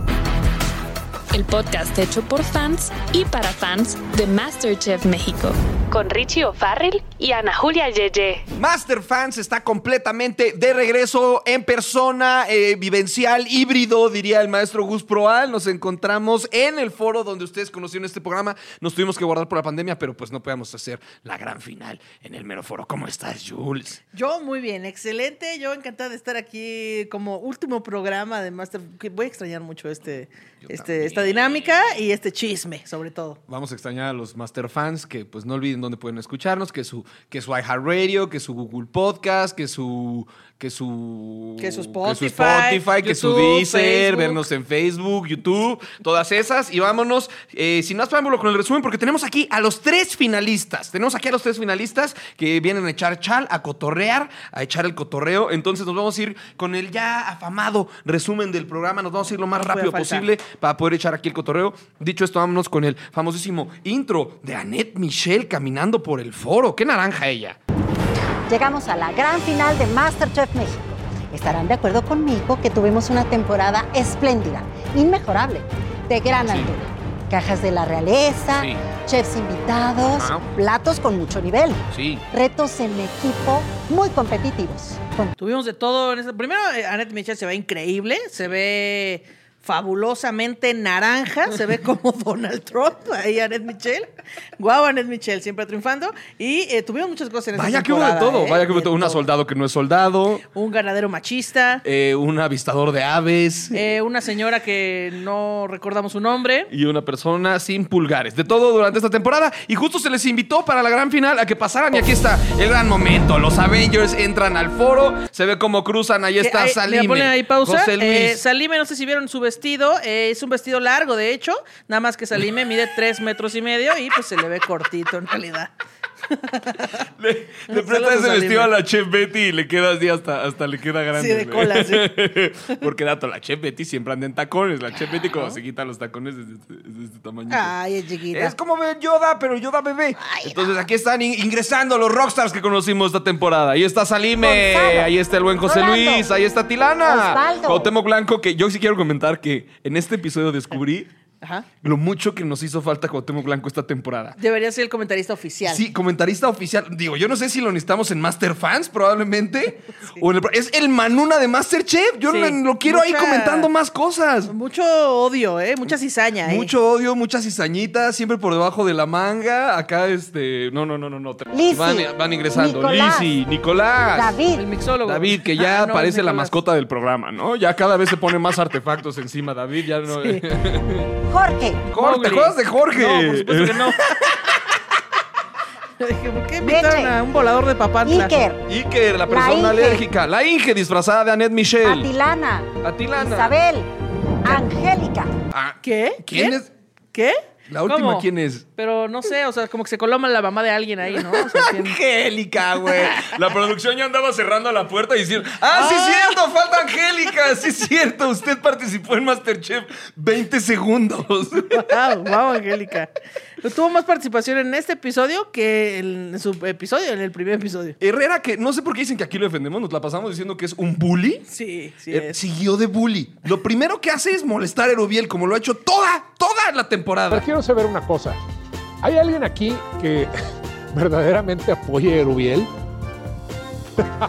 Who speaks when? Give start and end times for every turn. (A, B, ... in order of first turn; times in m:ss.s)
0:01.3-0:08.4 A
0:08.6-0:24.0 B
0:24.1-0:33.4 C
0:30.6-0:31.8 B
0:33.5-1:07.6 B
0:41.6-0:44.4 C
0:59.6-1:00.3 C
1:08.5-1:21.8 D
1:20.2-1:20.4 B
1:21.9-1:22.2 B
1:22.3-1:25.3 D
1:25.4-1:39.2 C
1:37.6-1:40.4 B
1:40.5-1:41.8 C
1:41.8-1:44.0 B
1:43.7-1:46.7 C
1:46.7-1:58.4 B
1:56.4-2:05.7 C
2:06.3-2:07.0 C
2:07.2-2:17.7 B
2:07.7-2:08.7 C
2:11.2-2:12.1 C
2:17.5-2:18.5 C
2:18.3-2:31.1 B
2:20.2-2:20.6 C
2:24.4-2:25.1 D
2:25.6-2:26.3 D
2:27.0-2:27.9 D
2:31.8-2:34.4 B
2:34.4-2:35.8 C
2:35.7-2:44.5 B
2:42.3-2:43.7 C
2:44.5-2:46.7 C
2:46.4-2:54.3 B
2:51.5-2:53.3 D
2:54.2-2:54.6 D
2:54.5-2:56.6 C
2:55.0-3:01.1 B
3:00.1-3:00.4 C
3:01.3-3:01.8 D
3:01.9-3:04.0 B
3:01.9-3:04.2 C
3:06.0-3:08.4 C
3:06.6-3:07.1 D
3:08.0-3:08.6 D
3:08.7-3:12.1 B
3:09.3-3:10.0 D
3:11.8-3:13.9 D
3:12.8-3:13.6 B
3:14.4-3:15.3 D
3:15.5-3:16.7 B
3:15.8-3:16.6 C
3:17.1-3:22.0 C
3:17.7-3:18.7 B
3:21.2-3:31.8 B
3:25.7-3:26.4 C
3:31.7-3:33.1 C
3:33.6-3:38.0 C
3:38.0-3:41.4 B
3:41.5-3:42.4 C
3:42.1-3:47.5 B
3:47.3-3:48.4 E
3:49.0-3:50.3 E
3:50.9-3:52.7 E